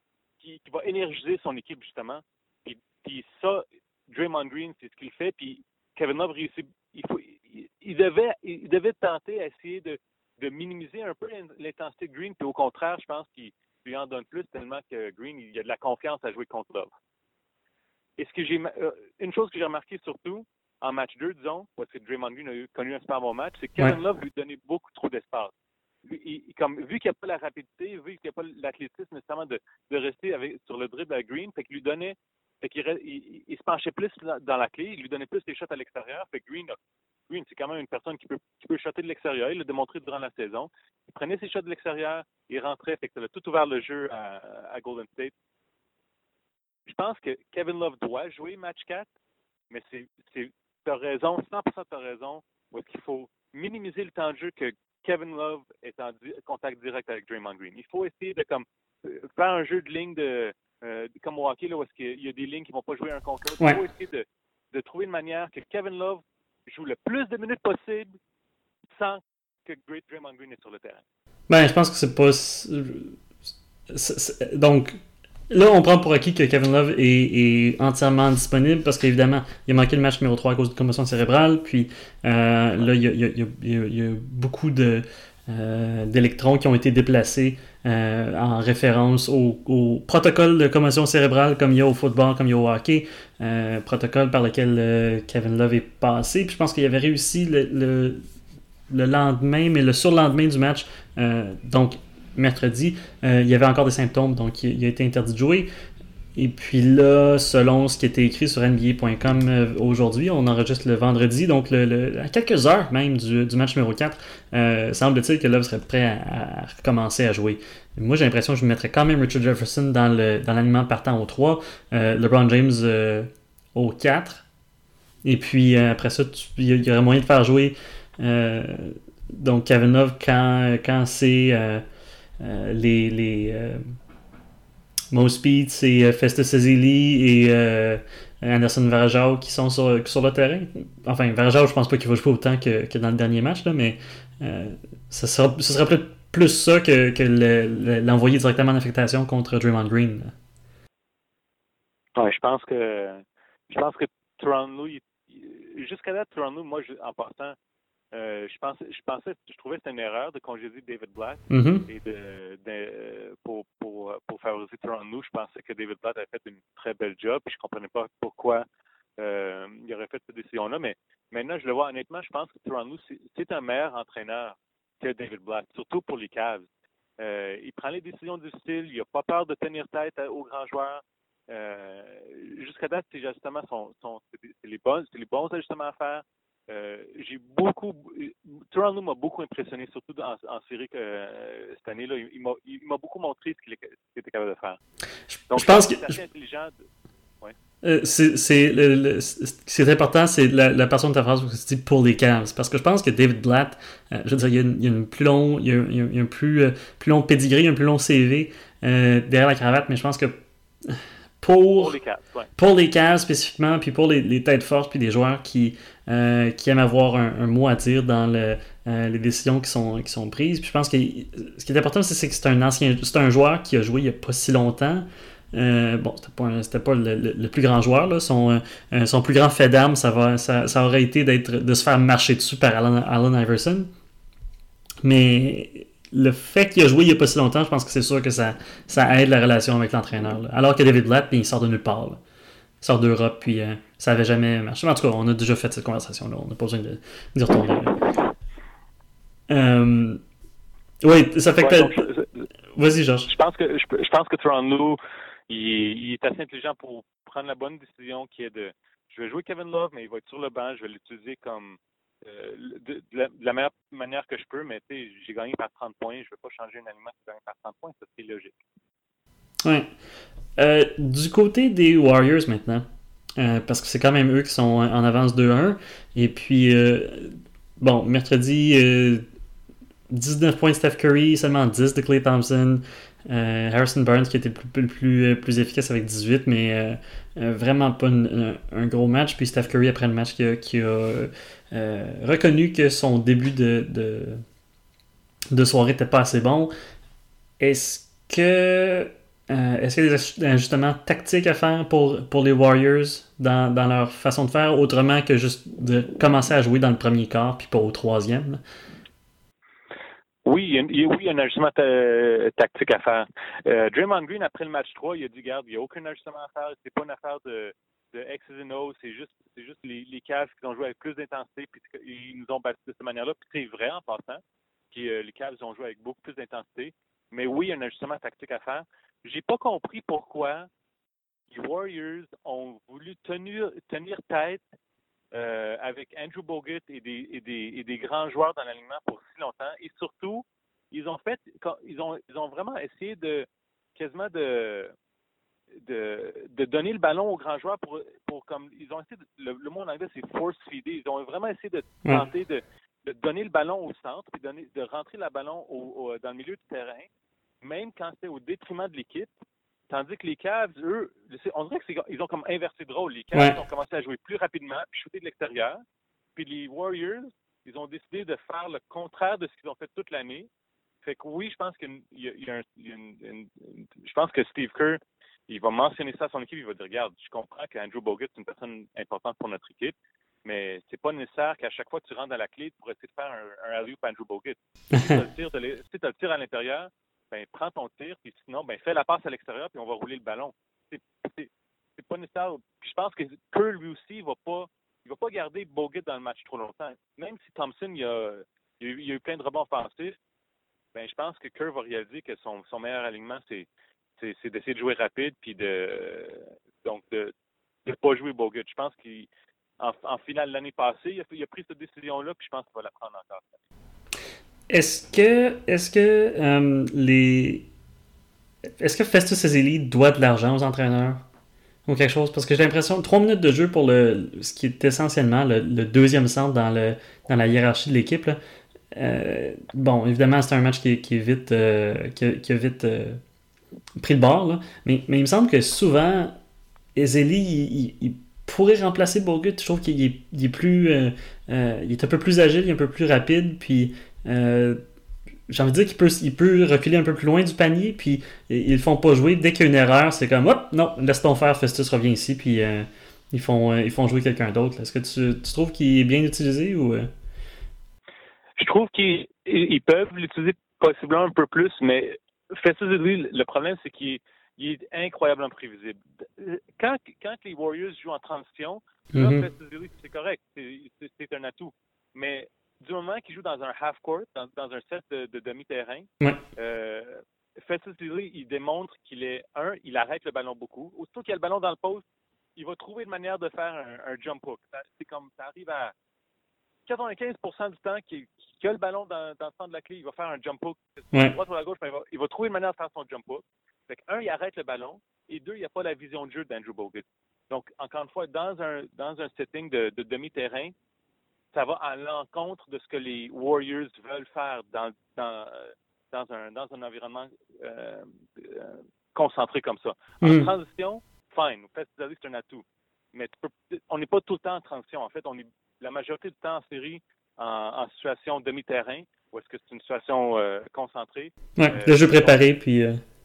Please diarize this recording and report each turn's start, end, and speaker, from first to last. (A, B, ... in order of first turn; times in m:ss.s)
0:00.4-0:16.9 A
0:18.2-0:36.8 A
0:37.3-0:45.3 A
0:46.9-0:49.1 A
0:49.7-1:08.1 A
1:08.9-1:11.0 A
1:11.5-1:13.2 B
1:13.9-1:15.0 B
1:15.5-1:38.2 B
1:38.9-1:45.7 B
1:46.3-2:04.4 B
2:05.2-2:11.8 B
2:12.4-2:13.8 B
2:15.1-2:30.3 B
2:32.2-2:37.6 A
2:38.1-2:48.6 A
2:41.5-2:41.8 B
2:49.2-2:56.7 A
2:57.2-3:14.8 A
3:15.3-3:16.1 B
3:15.5-3:16.7 A
3:17.8-3:31.9 B
3:31.8-3:32.5 A
3:32.6-3:53.9 B
3:55.0-4:02.2 B
4:02.8-4:08.0 B
4:09.5-4:10.2 B
4:11.0-4:12.0 B
4:11.6-4:12.4 A
4:12.7-4:13.3 B
4:13.3-4:28.6 A
4:30.6-4:32.8 B
4:33.4-4:39.2 B
4:40.1-4:54.4 B
4:55.5-4:56.7 B
4:57.6-5:08.6 B
5:10.4-5:30.7 A
5:31.5-5:34.6 A
5:35.3-5:44.9 A
5:45.8-5:57.1 A
5:57.6-5:59.3 A
5:59.9-6:05.8 A
6:06.4-6:10.5 A
6:11.0-6:40.2 A
6:24.9-6:25.2 B
6:40.9-6:43.7 A
6:44.2-6:47.3 A
6:47.8-6:49.3 A
6:49.8-6:53.6 A
6:54.7-6:57.6 B
6:58.8-7:01.2 B
7:01.9-7:08.4 B
7:08.9-7:13.2 B
7:14.0-7:16.4 B
7:17.0-7:24.8 B
7:25.5-7:37.1 B
7:38.6-8:02.0 A
7:49.1-7:49.5 B
8:02.6-8:05.9 A
8:06.9-8:20.7 A
8:21.5-8:42.4 A
8:30.2-8:30.5 B
8:41.6-8:43.0 B